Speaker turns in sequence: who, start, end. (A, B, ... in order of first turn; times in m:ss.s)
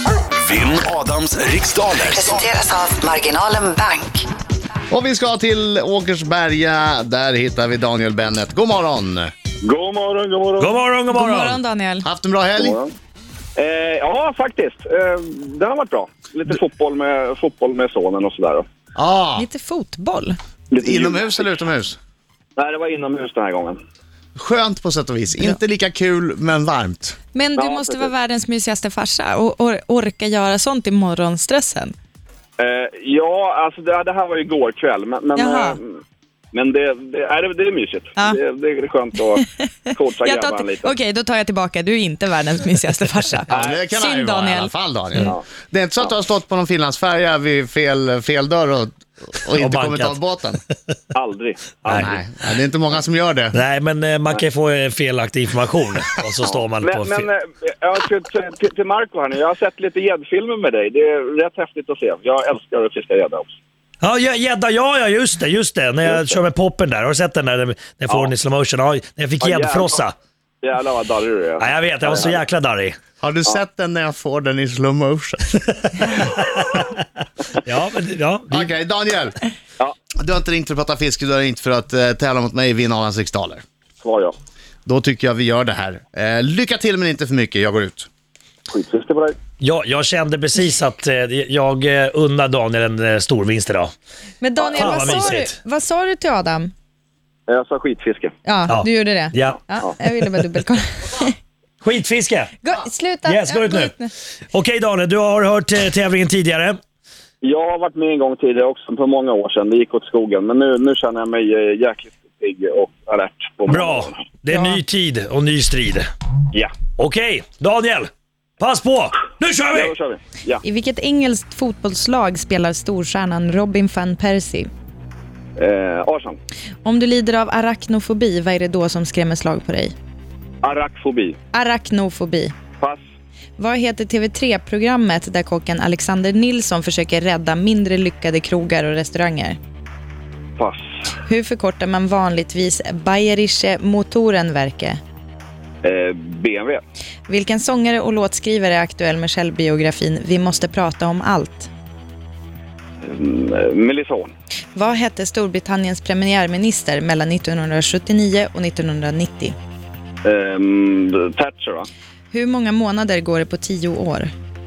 0:00.4-0:02.5 A
0:02.1-0:04.3 B
0:04.9-0:09.3 C
0:09.6-0:10.8 D
0:10.6-0:11.6 E
0:11.1-0:12.1 F
0:12.0-0:12.8 C
0:12.6-0:12.9 D
0:13.6-0:18.7 D
0:19.0-0:19.5 C
0:19.4-0:20.4 F
0:20.7-0:21.6 D
0:20.8-0:22.0 C
0:22.6-0:23.8 D
0:24.4-0:27.2 C
0:27.3-0:31.9 F
0:27.6-0:28.1 D
0:32.6-0:36.0 D
0:35.4-0:35.8 F
0:36.5-0:41.0 D
0:39.9-0:44.7 F
0:43.5-0:50.6 C
0:43.5-0:43.8 D
0:49.6-0:50.2 E
0:51.1-0:52.2 D
0:51.9-0:52.2 E
0:51.9-0:53.6 C
0:53.5-0:57.3 E
0:56.4-1:03.5 D
1:04.0-1:10.2 E
1:09.4-1:10.0 D
1:10.6-1:12.4 D
1:11.6-1:13.0 E
1:13.2-1:15.6 C
1:15.8-1:16.4 E
1:17.6-1:18.7 E
1:18.5-1:19.4 C
1:20.2-1:23.6 C
1:24.0-1:24.3 D
1:24.9-1:28.1 C
1:28.7-1:29.4 D
1:29.6-1:33.9 E
1:34.4-1:36.7 F
1:34.6-1:35.4 D
1:34.8-1:35.6 E
1:37.5-1:38.3 D
1:38.4-1:41.4 F
1:38.7-1:39.6 E
1:41.8-1:42.5 E
1:42.6-1:44.1 F
1:43.3-1:43.9 E
1:44.5-1:46.8 E
1:47.4-1:54.2 D
1:53.7-1:56.1 E
1:56.5-1:56.8 D
1:57.0-2:00.0 E
1:59.7-2:00.6 D
2:00.6-2:04.7 F
2:05.6-2:06.4 D
2:06.8-2:09.9 F
2:10.6-2:11.4 D
2:11.5-2:12.5 F
2:13.6-2:19.6 F
2:21.2-2:25.0 F
2:25.8-2:26.8 D
2:27.3-2:31.7 F
2:33.0-2:34.3 D
2:34.8-2:39.6 F
2:40.2-2:41.9 D
2:42.3-2:44.3 F